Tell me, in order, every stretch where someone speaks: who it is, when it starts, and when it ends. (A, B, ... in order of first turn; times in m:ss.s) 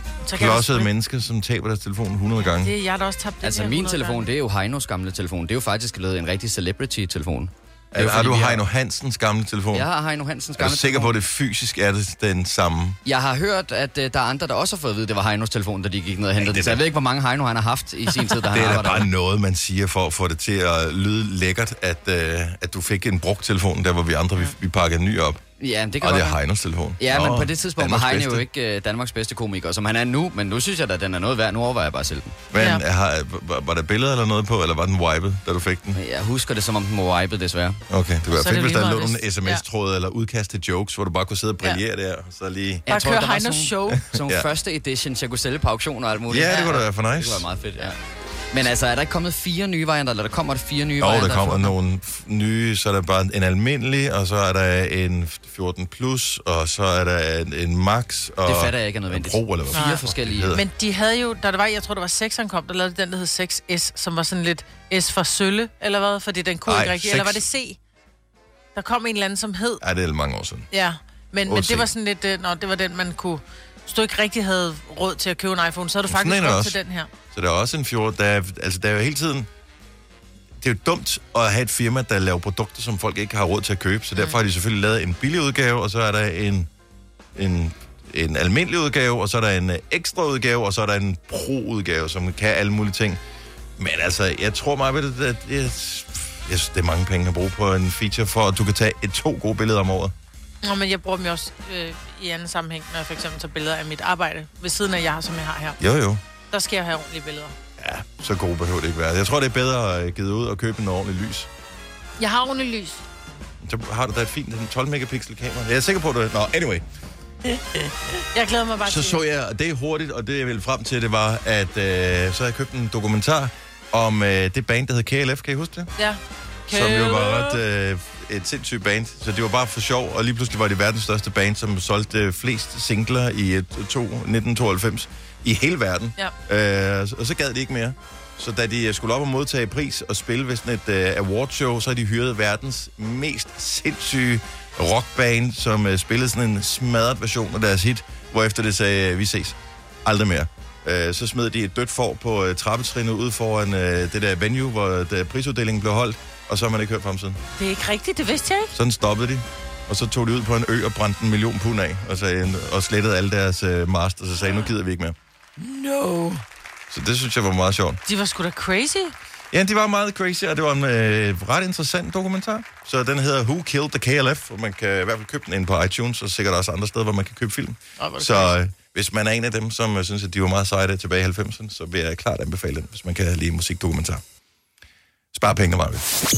0:00.2-0:00.9 A
0:00.3-0:02.7 B
0:02.5-0:04.3 A
0:03.4-0:08.6 C
0:07.9-0:09.9 B
0:09.7-0:11.1 C
0:10.6-0:13.0 B
0:13.0-0:19.1 C
0:16.4-0:16.8 B
0:18.5-0:25.4 B
0:25.6-0:26.4 C
0:26.0-0:28.4 B
0:27.0-0:32.4 C
0:32.5-0:36.0 B
0:32.6-0:32.8 A
0:35.9-0:37.8 C
0:37.9-0:42.8 B
0:38.3-0:39.6 A
0:42.9-0:48.0 C
0:42.9-0:44.0 A
0:44.0-0:44.4 B
0:46.3-0:47.4 B
0:48.5-0:51.7 C
0:51.0-1:00.6 B
0:58.4-1:00.5 C
1:00.5-1:07.8 A
1:06.7-1:07.4 B
1:08.8-1:09.8 A
1:09.8-1:10.7 B
1:10.7-1:17.1 A
1:11.4-1:11.9 B
1:16.1-1:16.8 B
1:17.3-1:19.5 B
1:20.6-1:26.7 B
1:27.4-1:33.2 B
1:33.8-1:40.1 B
1:40.6-1:45.8 A
1:45.8-1:46.2 B
1:46.5-1:47.6 A
1:47.8-1:51.5 B
1:52.2-1:53.0 A
1:53.6-1:56.8 B
1:57.4-1:59.2 A
1:58.9-2:05.9 B
2:06.0-2:07.6 A
2:06.7-2:37.4 B
2:37.6-2:38.7 A
2:38.7-2:45.2 B
2:45.6-2:46.4 A
2:46.9-2:48.0 B
2:48.1-2:49.1 A
2:49.5-3:04.2 B
2:58.0-2:58.5 A
3:05.3-3:06.1 B